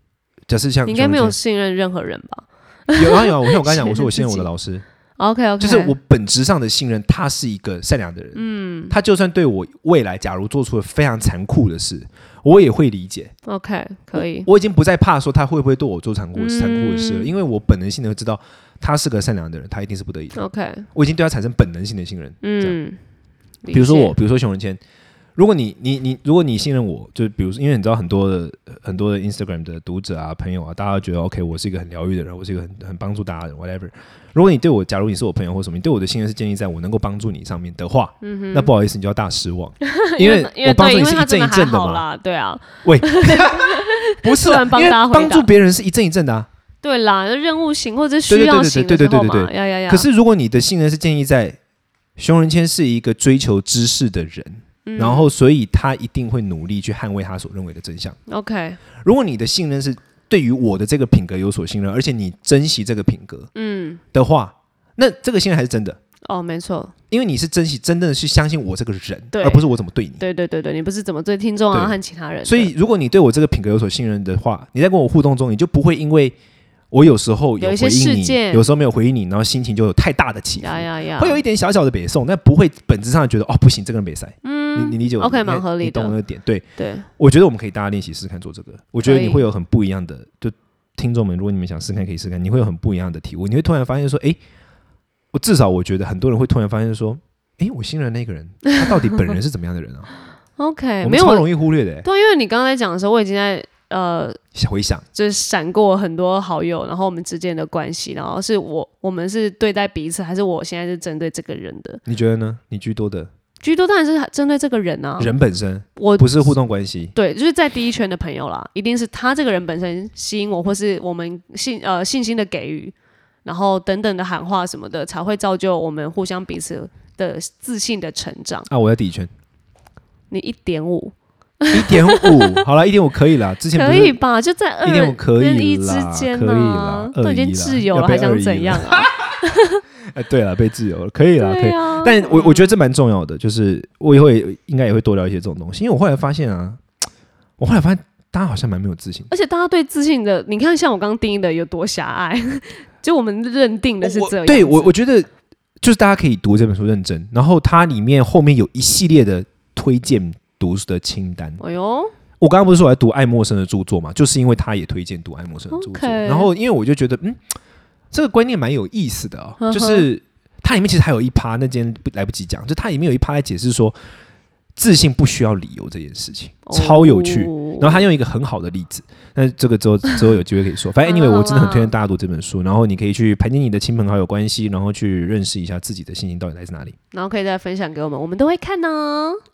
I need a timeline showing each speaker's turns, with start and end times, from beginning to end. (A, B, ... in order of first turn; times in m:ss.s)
0:00.5-0:01.4 A
0:00.8-0:04.5 B
0:03.0-0:04.8 A
0:05.2-0:05.9 B
0:05.6-0:13.3 A
0:08.3-0:08.9 B
0:13.5-0:14.5 B
0:14.2-0:20.4 A
0:16.4-0:17.3 B
0:20.4-0:20.9 B
0:20.9-0:22.8 A
0:22.4-0:23.0 B
0:23.6-0:24.2 B
0:23.7-0:24.8 A
0:25.4-0:42.0 A
0:38.2-0:38.7 B
0:39.8-0:45.5 B
0:42.8-0:46.5 A
0:46.8-0:50.1 B
0:48.3-0:51.6 A
0:52.2-0:58.2 A
0:54.8-0:55.3 B
0:58.3-0:58.8 B
0:59.0-1:03.5 A
1:03.6-1:04.0 B
1:04.1-1:06.0 A
1:06.2-1:06.9 B
1:07.1-1:10.2 A
1:09.3-1:09.6 B
1:10.2-1:12.7 B
1:11.7-1:16.4 A
1:16.9-1:26.6 A
1:17.6-1:18.6 B
1:20.6-1:21.4 B
1:24.4-1:26.2 B
1:26.8-1:27.1 B
1:27.2-1:34.4 A
1:29.0-1:29.4 B
1:35.3-1:40.1 A
1:40.6-1:41.5 B
1:41.0-1:42.1 A
1:42.0-1:44.4 B
1:44.5-1:45.0 A
1:45.2-1:52.0 B
1:52.1-1:53.3 A
1:53.6-1:55.3 B
1:55.2-1:57.1 A
1:56.0-1:56.6 B
1:57.2-2:08.7 B
2:08.7-2:09.3 A
2:10.3-2:12.6 B
2:11.7-2:14.2 A
2:13.7-2:19.8 B
2:14.8-2:19.2 A
2:20.1-2:26.8 A
2:21.4-2:22.8 B
2:27.6-2:29.3 A
2:29.3-2:34.9 B
2:34.0-2:35.3 A
2:35.8-2:41.6 A
2:41.6-2:42.1 B
2:42.4-2:47.5 A
2:45.7-2:46.5 B
2:48.1-2:54.0 A
2:49.6-2:50.1 B
2:54.8-3:07.0 A
2:56.7-2:58.0 B
3:01.0-3:01.9 B
3:07.1-3:09.4 B